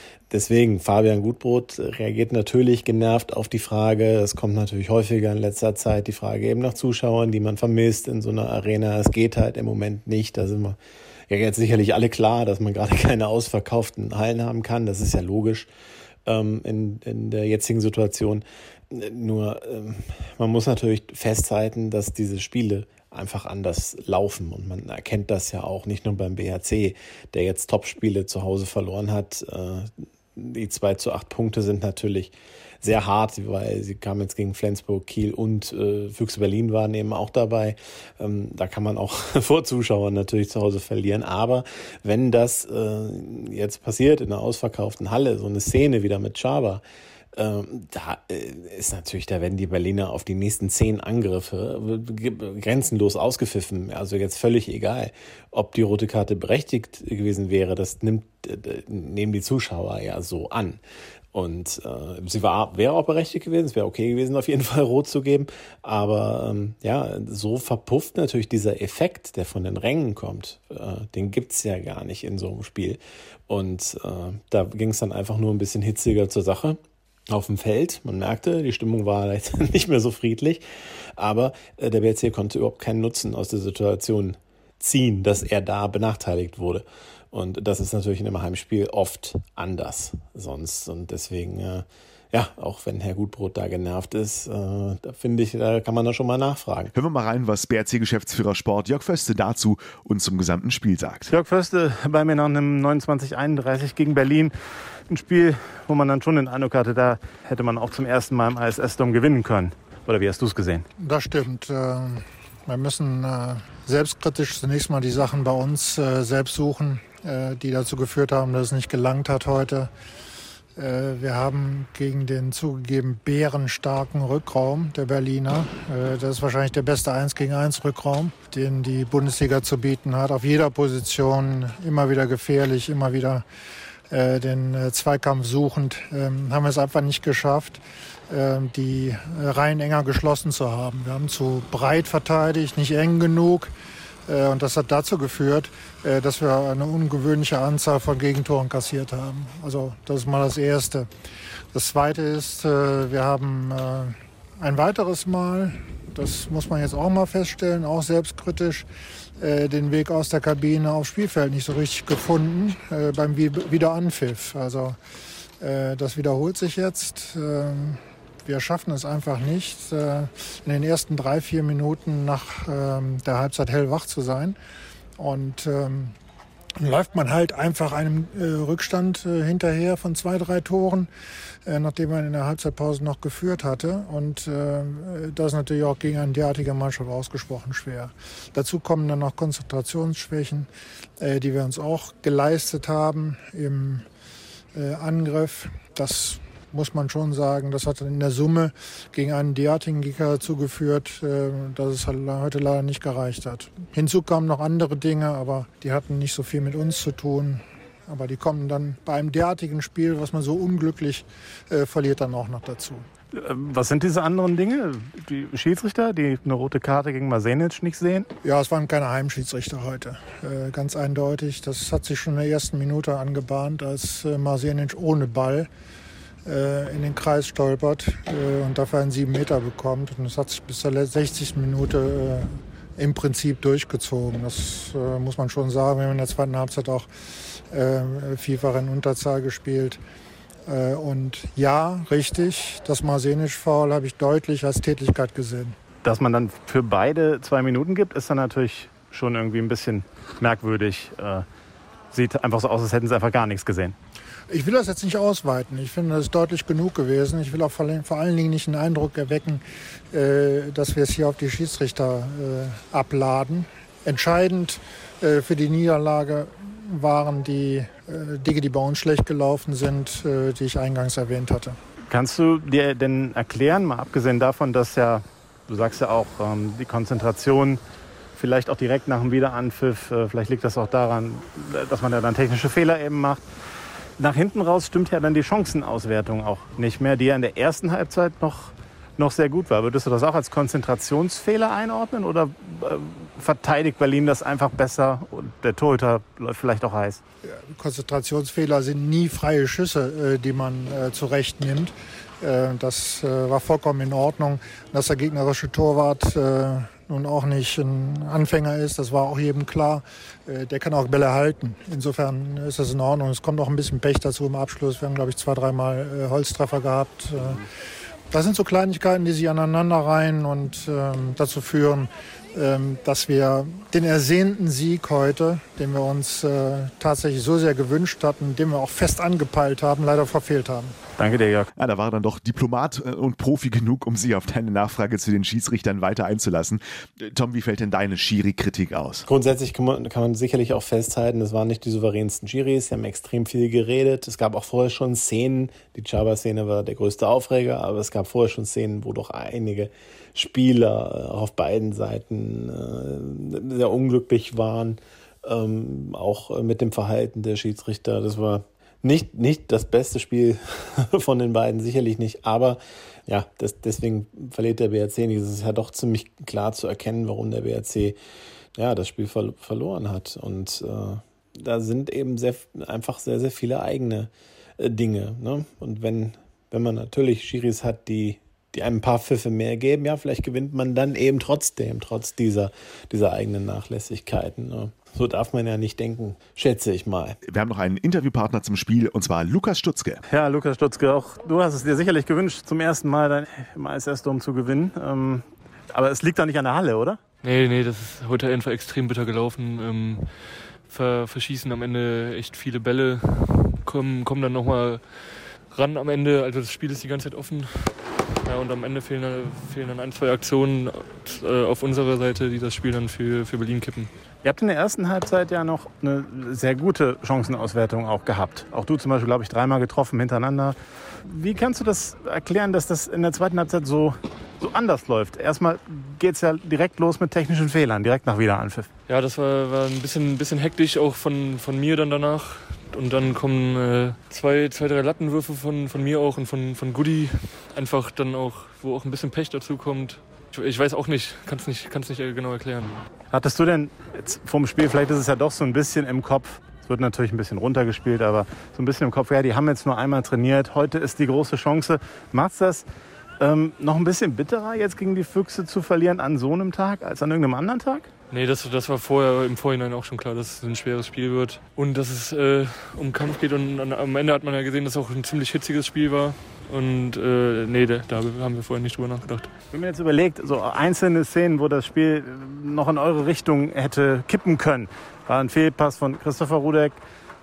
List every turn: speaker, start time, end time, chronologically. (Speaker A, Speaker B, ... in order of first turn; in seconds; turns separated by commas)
Speaker A: 0.3-10.8, Speaker A: 11.3-15.7, Speaker A: 16.2-46.8, Speaker A: 47.3-60.8, Speaker A: 61.3-80.6, Speaker A: 81.2-96.9, Speaker B: 96.9-101.3, Speaker C: 101.3-104.5, Speaker C: 105.1-110.9, Speaker D: 111.0-119.9, Speaker D: 120.8-133.4, Speaker D: 134.1-143.7, Speaker D: 144.3-151.1, Speaker D: 151.7-158.8, Speaker D: 159.4-165.0, Speaker D: 165.6-174.6, Speaker D: 175.2-176.1, Speaker D: 176.8-181.1, Speaker D: 181.6-190.7, Speaker D: 191.2-194.1, Speaker D: 194.7-213.1, Speaker C: 213.3-218.3, Speaker D: 218.4-225.7, Speaker D: 226.4-237.1, Speaker D: 237.7-240.0, Speaker D: 240.7-245.8, Speaker C: 246.0-251.4, Speaker C: 252.1-253.9, Speaker D: 254.5-271.8, Speaker C: 272.1-277.8, Speaker C: 278.4-283.4, Speaker C: 284.2-297.2, Speaker D: 297.6-317.7, Speaker D: 318.3-330.9, Speaker C: 331.2-331.7, Speaker B: 331.8-339.2, Speaker A: 339.2-368.1, Speaker A: 368.8-387.4, Speaker B: 387.4-390.2, Speaker C: 390.3-397.2, Speaker E: 397.4-414.1, Speaker C: 414.4-428.9, Speaker E: 429.1-443.1, Speaker C: 443.3-452.8, Speaker C: 453.4-458.1, Speaker E: 458.3-469.5, Speaker C: 469.7-477.0